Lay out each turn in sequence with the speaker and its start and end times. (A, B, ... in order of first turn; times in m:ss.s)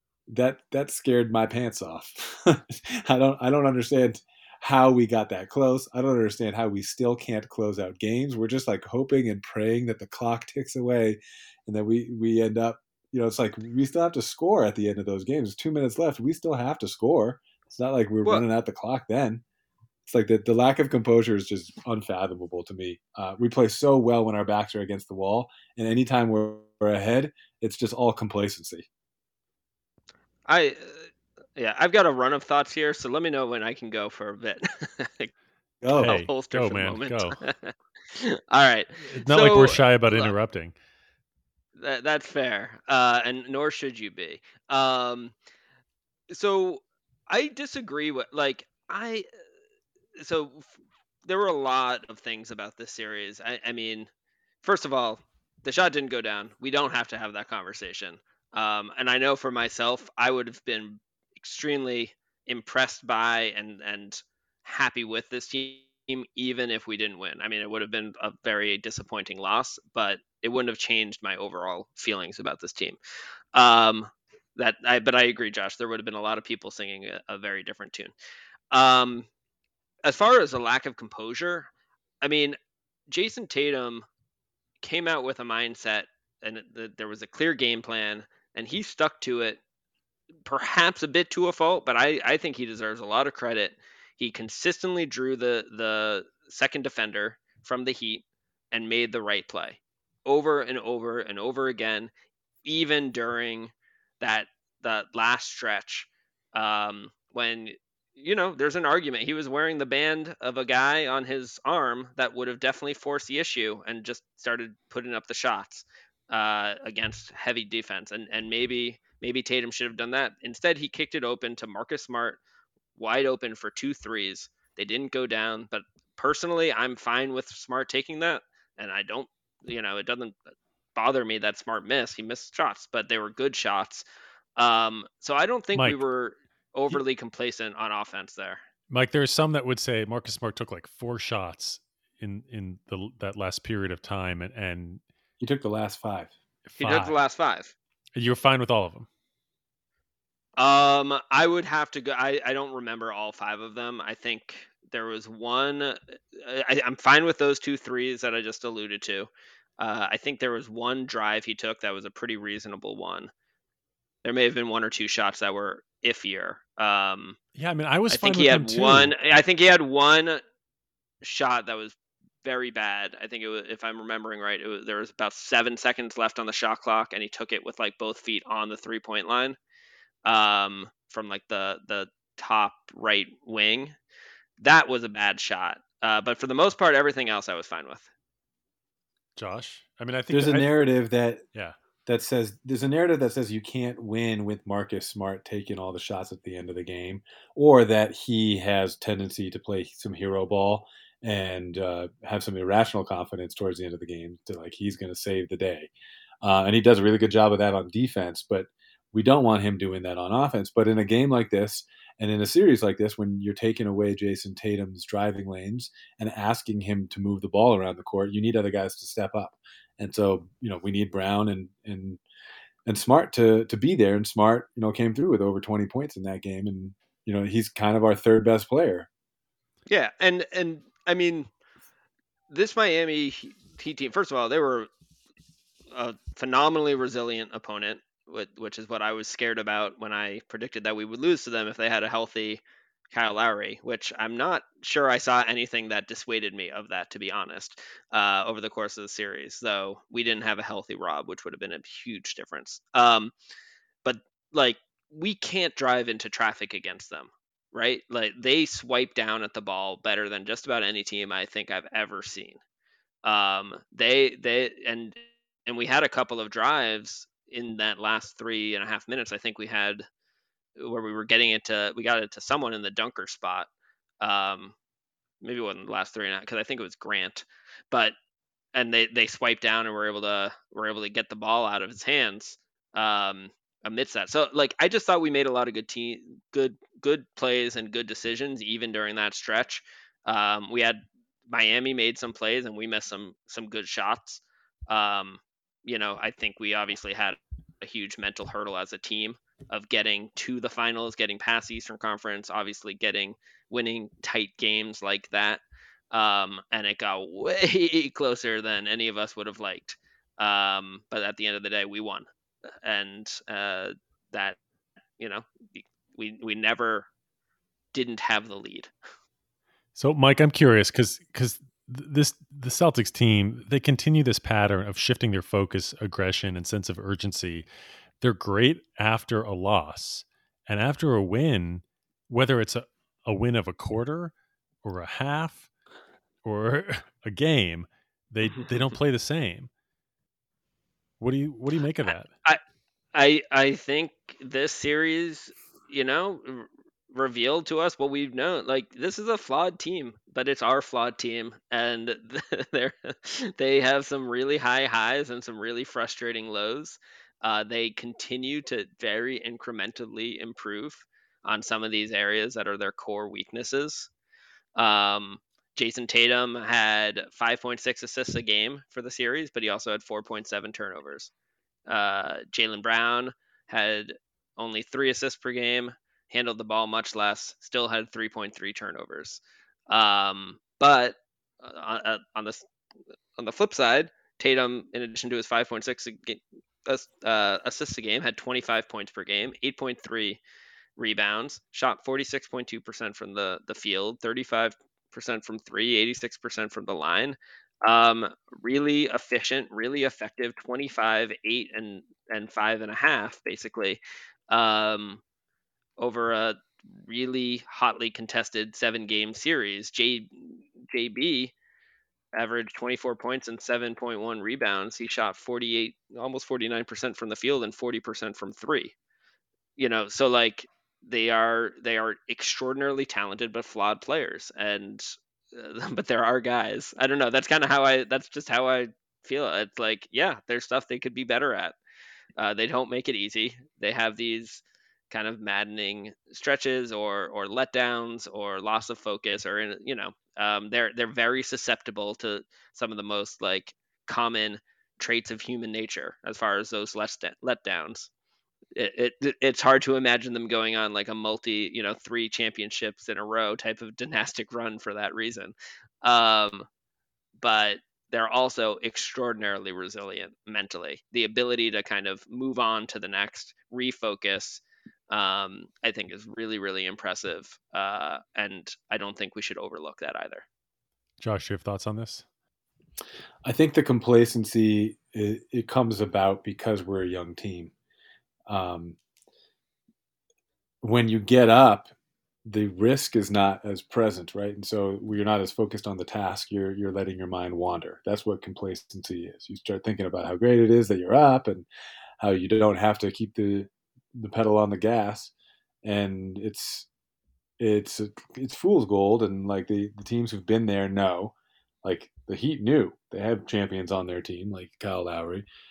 0:00.3-0:19.4 A
0:20.1-0:28.8 A
0:30.5-0:35.3 B
0:35.8-0:36.2 A
0:36.0-0:37.4 C
0:36.0-0:40.3 B
0:39.1-0:40.7 C
0:41.8-0:45.3 B
0:46.3-0:49.3 B
0:50.2-0:50.7 B
0:51.2-0:54.1 B
0:54.6-1:13.0 B
1:13.5-1:18.1 B
1:18.7-1:19.3 B
1:20.0-1:21.7 B
1:22.2-1:22.6 B
1:23.1-1:24.1 B
1:24.8-1:29.6 B
1:30.4-1:42.1 B
1:42.6-2:02.4 B
2:03.0-2:10.4 B
2:10.9-2:14.0 B
2:14.6-2:18.6 B
2:15.7-2:16.0 C
2:18.9-2:25.0 C
2:25.4-2:26.3 A
2:26.6-2:27.1 C
2:26.8-2:27.7 B
2:28.2-2:29.1 C
2:30.6-2:43.3 B
2:44.2-2:47.4 B
2:47.6-2:49.1 C
2:48.1-2:50.4 B
2:51.2-2:59.6 B
3:00.2-3:04.0 B
3:04.6-3:08.1 B
3:09.4-3:10.7 C
3:10.3-3:11.4 A
3:12.0-3:25.9 A
3:26.4-3:42.2 A
3:42.8-3:49.1 A
3:49.9-3:51.5 B
3:52.5-3:54.9 B
3:55.9-4:02.6 B
4:03.1-4:13.3 B
4:14.0-4:22.6 B
4:23.2-4:30.0 B
4:30.8-4:33.7 B
4:34.2-4:34.7 B
4:35.4-4:38.1 B
4:38.7-5:12.3 B
5:12.8-5:14.6 B
5:15.2-5:17.1 B
5:17.9-5:18.9 B
5:20.0-5:27.6 C
5:28.2-5:34.3 C
5:34.8-5:35.7 C
5:36.4-5:39.7 C
5:41.2-5:42.3 C
5:43.1-6:04.1 B
6:04.8-6:11.3 B
6:11.9-6:22.6 B
6:23.4-6:30.4 B
6:31.0-6:45.2 B
6:46.0-6:51.5 B
6:52.3-6:58.9 B
6:59.8-7:11.8 B
7:12.4-7:28.1 B
7:28.8-7:36.7 B
7:37.4-7:50.4 B
7:51.2-7:52.2 C
7:53.4-7:57.7 A
7:58.5-7:59.0 A
8:00.8-8:01.9 A
8:02.4-8:11.7 A
8:12.2-8:15.3 A
8:15.8-8:16.9 A
8:17.6-8:25.5 A